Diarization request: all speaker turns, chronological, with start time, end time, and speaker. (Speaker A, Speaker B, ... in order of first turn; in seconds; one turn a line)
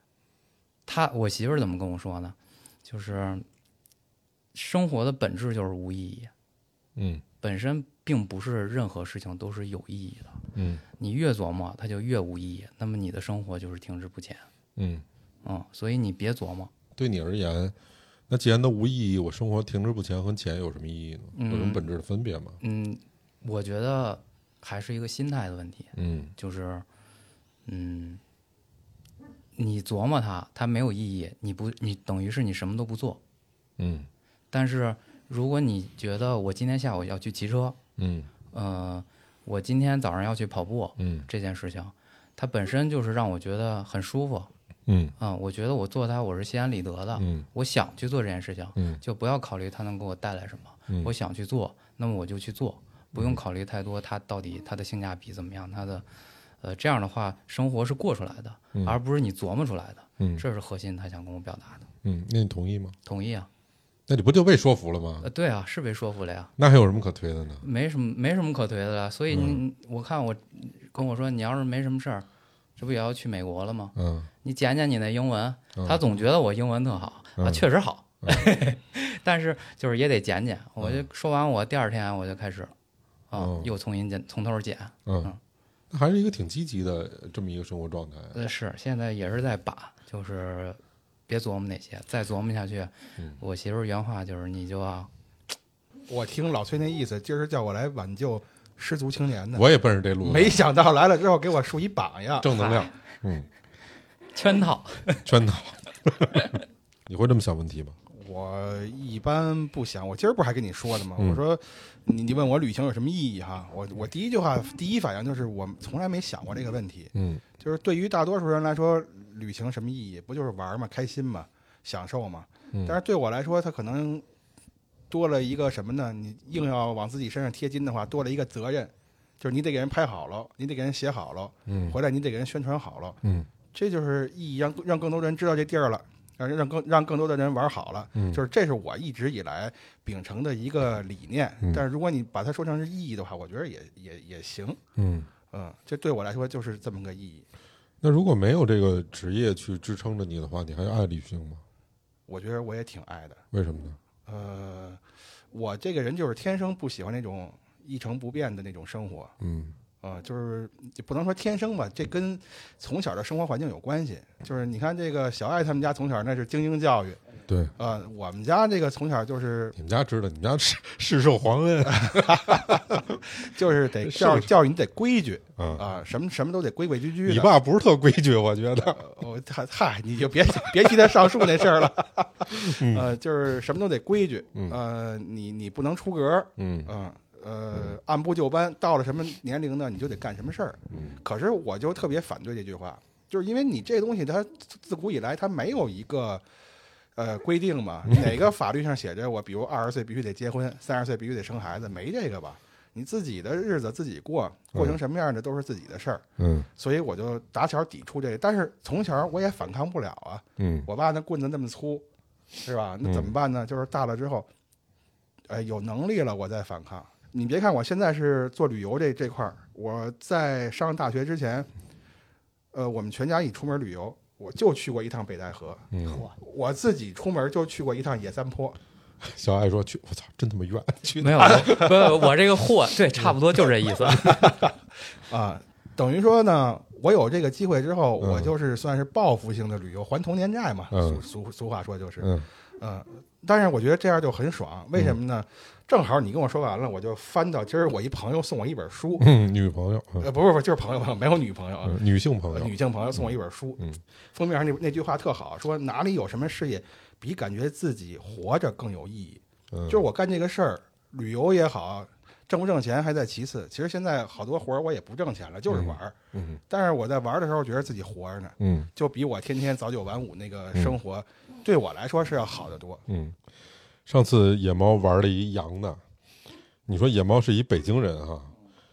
Speaker A: 0.9-3.5
Speaker A: 4.5-6.3
Speaker B: 7.0-7.2
Speaker A: 7.4-10.4
Speaker B: 10.5-10.8
Speaker A: 11.0-14.5
Speaker B: 14.8-15.1
Speaker A: 15.4-16.7
Speaker B: 17.0-17.8
Speaker B: 18.3-22.6
Speaker A: 21.3-21.8
Speaker A: 22.6-26.9
Speaker B: 25.9-26.3
Speaker A: 27.7-28.2
Speaker A: 29.6-33.2
Speaker B: 33.8-34.1
Speaker A: 34.5-37.8
Speaker B: 38.0-38.3
Speaker A: 38.5-44.5
Speaker B: 41.0-41.3
Speaker B: 44.9-45.1
Speaker A: 45.2-56.0
Speaker B: 47.2-47.5
Speaker B: 48.8-49.0
Speaker B: 53.1-53.4
Speaker A: 56.6-61.9
Speaker B: 60.2-60.4
Speaker B: 62.0-63.0
Speaker A: 63.0-63.5
Speaker B: 64.1-65.3
Speaker A: 65.2-66.5
Speaker B: 66.6-67.7
Speaker A: 67.6-72.3
Speaker B: 69.3-69.6
Speaker A: 72.8-82.7
Speaker B: 74.0-74.3
Speaker B: 75.8-76.0
Speaker B: 77.4-77.7
Speaker B: 80.8-81.1
Speaker A: 83.3-85.4
Speaker B: 83.3-83.7
Speaker B: 85.1-85.3
Speaker B: 85.9-88.4
Speaker A: 88.3-95.1
Speaker C: 96.1-99.7
Speaker B: 99.5-100.6
Speaker C: 100.2-102.5
Speaker B: 102.4-103.5
Speaker A: 102.4-102.9
Speaker A: 104.3-105.3
Speaker B: 105.2-106.5
Speaker B: 107.1-108.0
Speaker C: 108.1-124.2
Speaker B: 117.1-117.4
Speaker C: 125.1-133.2
Speaker B: 131.7-132.0
Speaker B: 133.2-133.5
Speaker C: 133.7-144.8
Speaker B: 138.2-138.4
Speaker B: 145.0-145.3
Speaker C: 145.5-147.5
Speaker B: 148.0-151.6
Speaker C: 152.3-153.4
Speaker B: 153.5-154.0
Speaker C: 154.3-155.0
Speaker C: 155.5-159.3
Speaker B: 159.4-159.8
Speaker C: 160.0-167.2
Speaker B: 167.5-167.7
Speaker C: 167.8-169.8
Speaker B: 169.8-173.2
Speaker C: 171.9-177.5
Speaker B: 174.1-174.5
Speaker B: 175.6-175.8
Speaker B: 177.2-179.0
Speaker C: 178.9-196.4
Speaker B: 182.5-183.1
Speaker B: 186.6-186.9
Speaker B: 190.9-191.2
Speaker C: 197.2-206.2
Speaker B: 206.4-206.7
Speaker C: 206.8-212.1
Speaker B: 210.6-210.9
Speaker C: 212.6-214.5
Speaker B: 213.1-213.3
Speaker C: 215.5-221.7
Speaker C: 222.7-228.8
Speaker B: 225.9-226.3
Speaker A: 226.1-226.3
Speaker B: 229.2-232.2
Speaker A: 231.2-234.6
Speaker C: 231.6-231.9
Speaker C: 234.1-234.7
Speaker C: 235.3-249.3
Speaker B: 238.2-238.5
Speaker B: 240.9-241.2
Speaker B: 242.2-242.5
Speaker B: 249.2-250.3
Speaker C: 250.2-253.8
Speaker B: 251.8-254.0
Speaker C: 254.3-266.2
Speaker B: 259.7-260.1
Speaker B: 265.7-266.6
Speaker C: 266.7-273.0
Speaker B: 268.6-268.9
Speaker B: 273.1-273.4
Speaker B: 274.1-276.0
Speaker B: 276.9-278.5